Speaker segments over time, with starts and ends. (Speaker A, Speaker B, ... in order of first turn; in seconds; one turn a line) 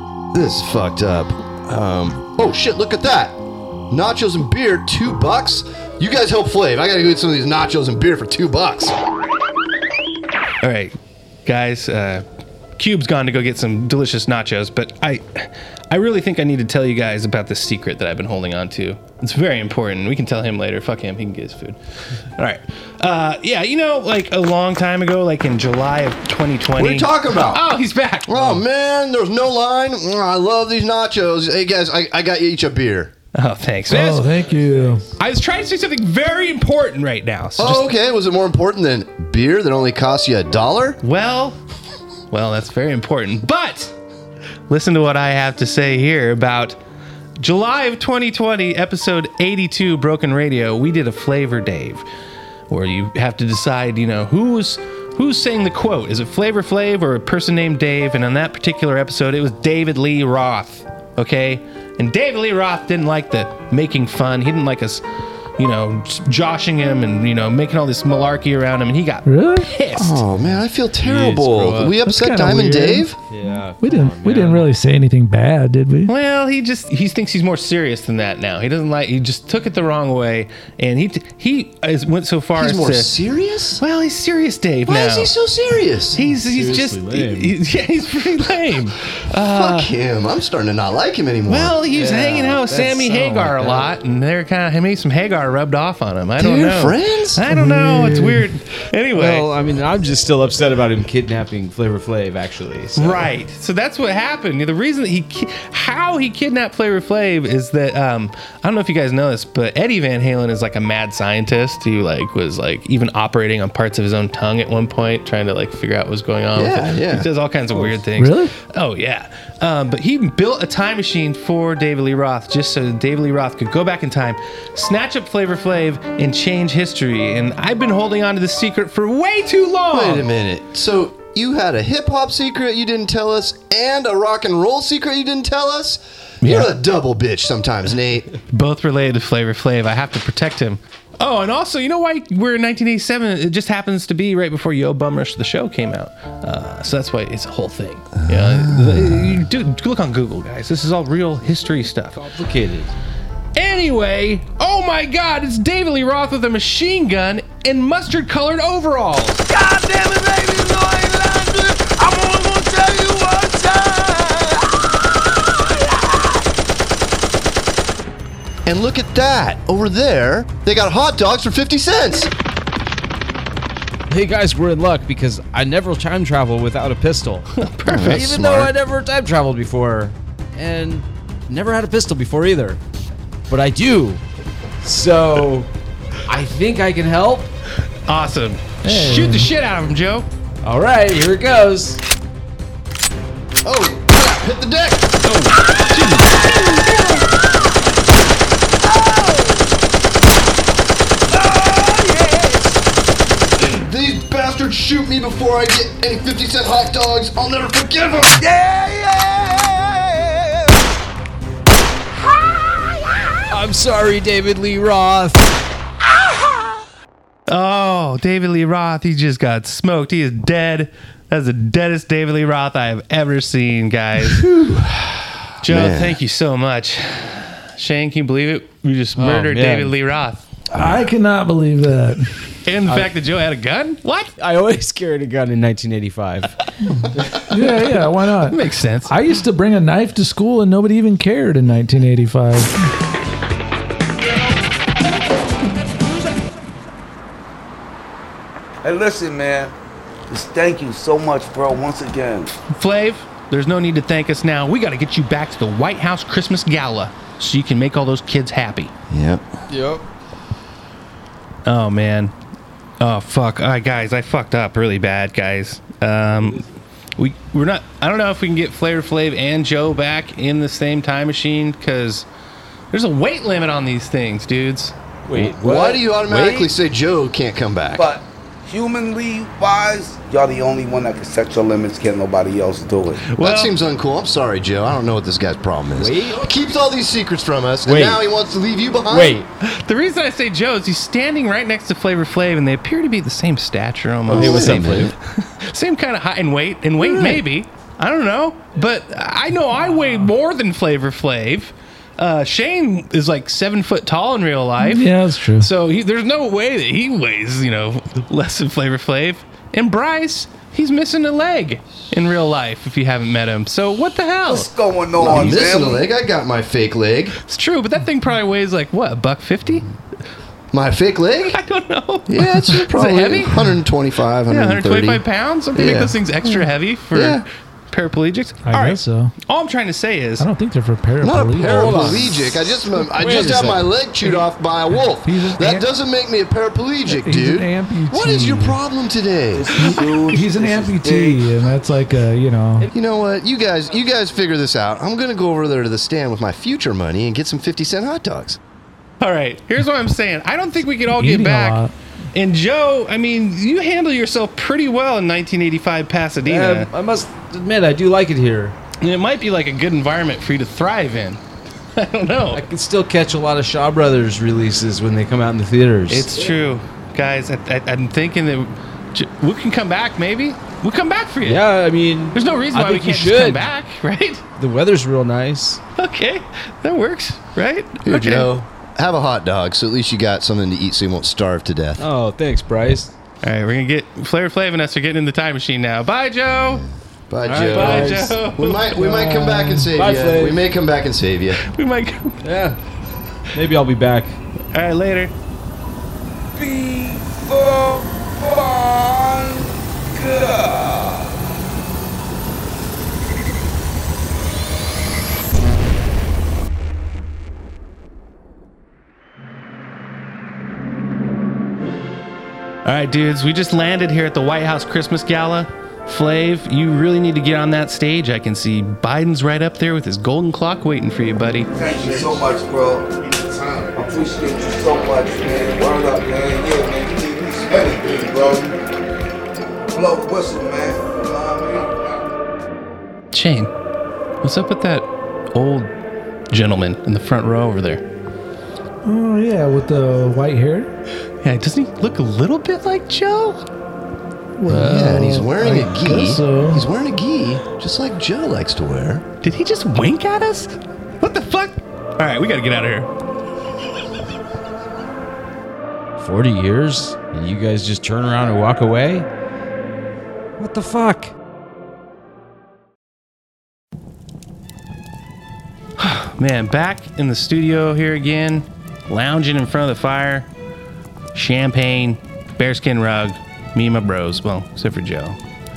Speaker A: 0.3-8.9
Speaker B: 10.6-10.9
Speaker B: 11.4-12.2
Speaker B: 12.8-21.8
Speaker B: 22.4-28.6
Speaker A: 26.8-27.6
Speaker A: 28.3-33.1
Speaker B: 33.4-34.3
Speaker C: 33.9-35.0
Speaker B: 35.2-37.9
Speaker A: 37.6-41.0
Speaker B: 41.0-41.6
Speaker B: 42.3-43.9
Speaker B: 44.7-46.8
Speaker B: 47.4-52.0
Speaker B: 52.7-65.0
Speaker B: 65.6-70.2
Speaker C: 69.2-69.7
Speaker A: 70.0-73.2
Speaker B: 71.3-71.7
Speaker C: 72.0-73.1
Speaker D: 73.3-74.7
Speaker C: 73.8-76.1
Speaker B: 76.1-83.2
Speaker A: 82.6-83.8
Speaker B: 83.8-85.3
Speaker A: 84.9-86.2
Speaker B: 86.1-89.9
Speaker D: 86.3-87.6
Speaker A: 89.3-91.8
Speaker B: 91.5-99.5
Speaker D: 91.9-93.9
Speaker A: 96.4-97.5
Speaker C: 97.5-98.4
Speaker D: 99.1-103.3
Speaker B: 103.0-130.3
Speaker A: 116.5-117.3
Speaker D: 117.7-118.0
Speaker C: 118.2-118.5
Speaker A: 129.9-138.3
Speaker B: 136.4-136.7
Speaker B: 138.5-152.2
Speaker A: 148.2-149.4
Speaker D: 152.2-152.9
Speaker B: 153.6-159.4
Speaker E: 159.5-166.4
Speaker A: 168.7-172.3
Speaker D: 174.1-177.5
Speaker B: 177.6-178.4
Speaker A: 177.9-178.7
Speaker D: 178.1-182.8
Speaker D: 183.5-184.2
Speaker D: 184.8-185.7
Speaker D: 186.3-187.5
Speaker B: 188.1-190.3
Speaker C: 188.8-189.5
Speaker D: 190.6-192.0
Speaker A: 193.6-195.1
Speaker B: 195.2-196.9
Speaker E: 196.6-197.2
Speaker E: 198.8-199.7
Speaker E: 201.3-202.8
Speaker A: 203.6-208.4
Speaker E: 208.4-210.8
Speaker E: 212.5-213.0
Speaker D: 213.5-215.5
Speaker B: 217.5-224.4
Speaker A: 224.4-226.2
Speaker B: 225.6-230.4
Speaker D: 229.2-229.9
Speaker C: 230.7-232.3
Speaker B: 232.7-234.3
Speaker D: 232.9-233.1
Speaker D: 234.4-236.5
Speaker C: 237.5-242.7
Speaker B: 238.5-239.1
Speaker F: 248.8-249.7
Speaker F: 250.3-252.5
Speaker B: 252.7-258.9
Speaker A: 259.1-259.4
Speaker D: 259.7-260.0
Speaker B: 261.6-262.3
Speaker B: 263.0-266.6
Speaker D: 266.3-266.7
Speaker B: 267.2-272.3
Speaker B: 272.9-274.9
Speaker D: 275.3-276.7
Speaker A: 275.4-278.1
Speaker F: 277.9-283.2
Speaker B: 283.2-283.7
Speaker A: 283.4-289.4
Speaker D: 286.0-286.5
Speaker D: 287.9-288.2
Speaker D: 289.1-289.5
Speaker B: 289.6-314.7
Speaker D: 294.3-295.1
Speaker A: 294.3-295.1
Speaker A: 297.0-297.4
Speaker C: 304.8-305.7
Speaker F: 314.5-316.1
Speaker A: 315.2-317.4
Speaker B: 315.3-315.7
Speaker B: 317.4-319.9
Speaker A: 320.7-321.6
Speaker B: 321.5-323.7
Speaker A: 322.3-325.2
Speaker B: 324.5-330.5
Speaker A: 325.8-326.6
Speaker A: 327.1-327.4
Speaker C: 328.6-329.3
Speaker C: 330.4-332.3
Speaker A: 331.2-339.9
Speaker D: 331.6-334.4
Speaker C: 335.2-335.9
Speaker C: 337.1-338.8
Speaker F: 339.5-341.4
Speaker C: 339.8-342.9
Speaker A: 342.9-348.6
Speaker B: 349.2-351.8
Speaker C: 351.1-351.9
Speaker B: 352.3-356.9
Speaker D: 356.4-358.8
Speaker B: 359.0-361.4
Speaker B: 361.9-362.6
Speaker D: 362.5-366.4
Speaker B: 366.1-371.7
Speaker D: 371.4-373.7
Speaker B: 372.3-374.4
Speaker D: 374.6-375.8
Speaker B: 376.0-378.5
Speaker A: 378.1-382.1
Speaker D: 382.0-383.1
Speaker B: 383.4-386.8
Speaker A: 386.8-391.6
Speaker D: 387.4-388.4
Speaker B: 387.7-388.8
Speaker C: 388.9-389.9
Speaker D: 389.9-390.6
Speaker B: 391.6-392.4
Speaker D: 392.4-392.8
Speaker D: 393.5-394.4
Speaker B: 394.7-395.3
Speaker F: 396.6-401.3
Speaker B: 412.9-421.7
Speaker F: 421.7-428.8
Speaker F: 429.9-432.1
Speaker B: 433.3-433.7
Speaker B: 434.4-435.9
Speaker B: 436.5-438.0
Speaker C: 439.0-440.9
Speaker B: 441.4-443.6
Speaker C: 444.6-446.8
Speaker A: 444.7-449.2
Speaker B: 449.4-453.1
Speaker D: 456.2-459.3
Speaker D: 460.6-461.3
Speaker B: 466.0-470.5
Speaker B: 471.3-475.4